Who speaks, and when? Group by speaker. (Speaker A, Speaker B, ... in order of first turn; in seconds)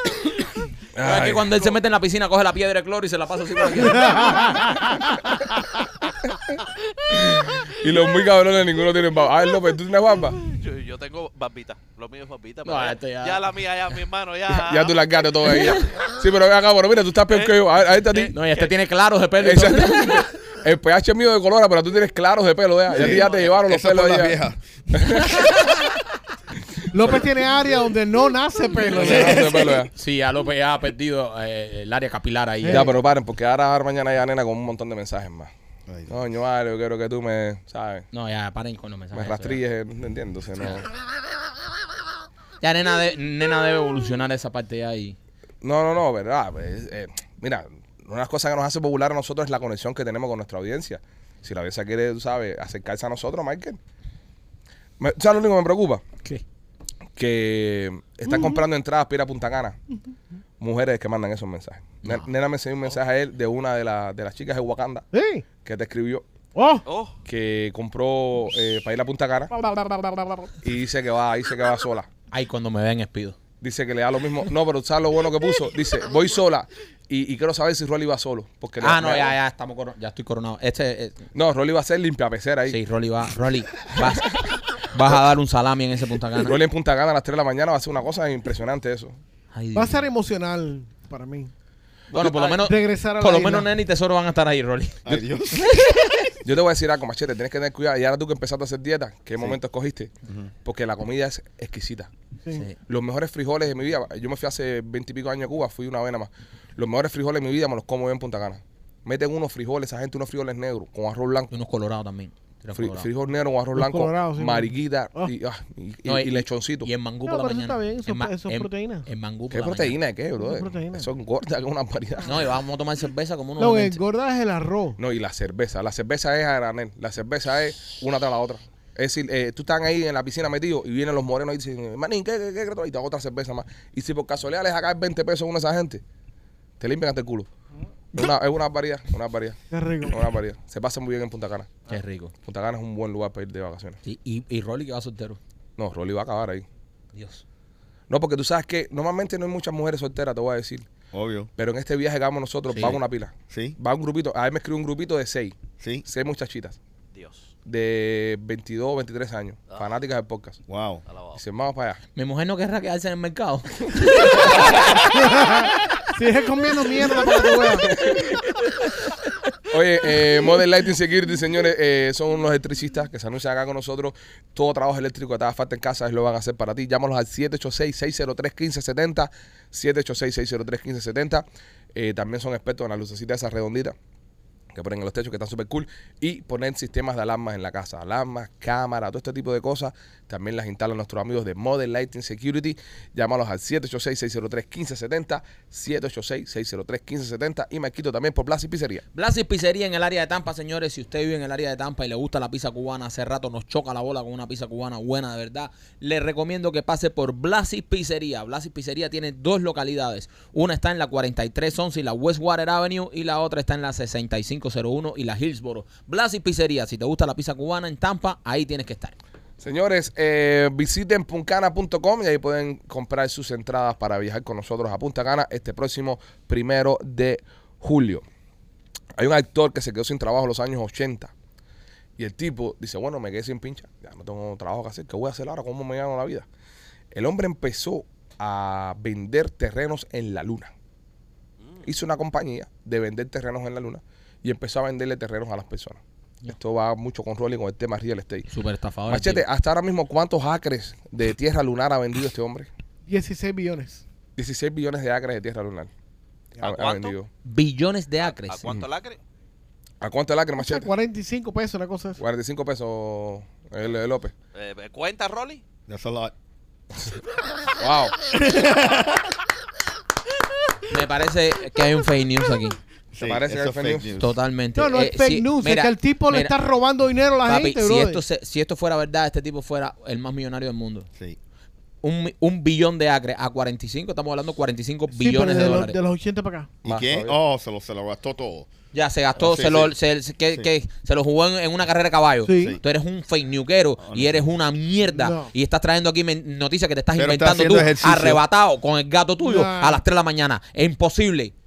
Speaker A: 0.9-1.7, 7.1-10.4, 14.5-18.3, 19.4-24.4, 25.0-25.5, 27.0-27.3, 28.9-29.9, 32.7-35.5, 36.1-38.0, 39.1-40.9, 45.6-53.8, 55.0-56.0, 57.2-59.8, 60.6-65.0, 65.6-66.2, 67.2-69.5, 70.6-72.1, 73.6-79.3, 81.3-82.8, 86.4-89.2, 96.4-100.1, 100.6-102.1, 102.8-111.5, 112.7-116.9, 119.5-122.4, 125.0-136.0, 136.8-137.5, 138.1-141.7, 142.4-144.0, 145.8-146.7, 148.1-150.8, 151.6-155.5, 156.1-156.8, 157.7-160.6, 161.3-162.0, 167.2-168.4, 169.7-183.9, 184.7-199.0, 219.6-228.2, 229.2-231.3, 232.2-236.4, 237.1-240.7, 241.8-248.5, 249.1-252.7, 254.3-255.9, 256.6-257.3, 260.0-260.9, 262.2-264.3, 267.8-268.1, 273.2-274.1, 286.8-287.4
Speaker B: 1.0-4.5, 12.6-13.4, 18.3-20.3, 29.9-32.9, 38.1-39.6, 42.6-45.2, 72.3-73.4, 78.8-81.2, 82.7-86.5, 89.5-90.0, 92.1-96.3, 102.5-102.8, 111.5-113.1, 116.0-119.9, 122.2-124.0, 141.9-142.3, 144.0-145.4, 147.1-147.4, 152.7-153.0, 162.2-165.0, 168.4-169.1, 199.1-219.2, 248.5-249.4, 257.4-258.6, 270.9-272.8, 274.2-276.5, 277.4-281.1, 282.0-286.0, 288.9-301.5
Speaker C: 4.1-4.9, 26.9-29.7, 32.6-32.9, 58.3-58.6, 65.1-65.4, 66.5-66.8, 69.5-70.5, 89.8-91.5, 92.5-93.7, 113.8-115.3, 117.3-119.1, 120.4-121.1, 123.6-125.0, 139.7-140.2, 165.1-167.9, 253.1-254.0, 260.6-262.2, 274.8-278.2, 285.1-286.7, 292.4-292.8, 295.1-295.5, 299.4-300.0
Speaker D: 10.4-15.9, 18.1-18.7, 23.1-23.4, 66.8-67.1, 92.2-92.5, 157.1-157.5, 161.1-161.4, 241.6-241.9, 256.7-257.1, 258.2-259.2, 264.5-265.6
Speaker E: 22.9-24.6, 28.9-29.6, 35.9-36.2, 95.0-95.8, 151.1-151.5, 153.5-153.8, 155.8-156.1, 160.7-161.0, 265.9-266.3, 268.3-269.3, 273.1-274.4, 286.8-288.7, 289.4-289.9, 294.0-294.5, 297.1-298.4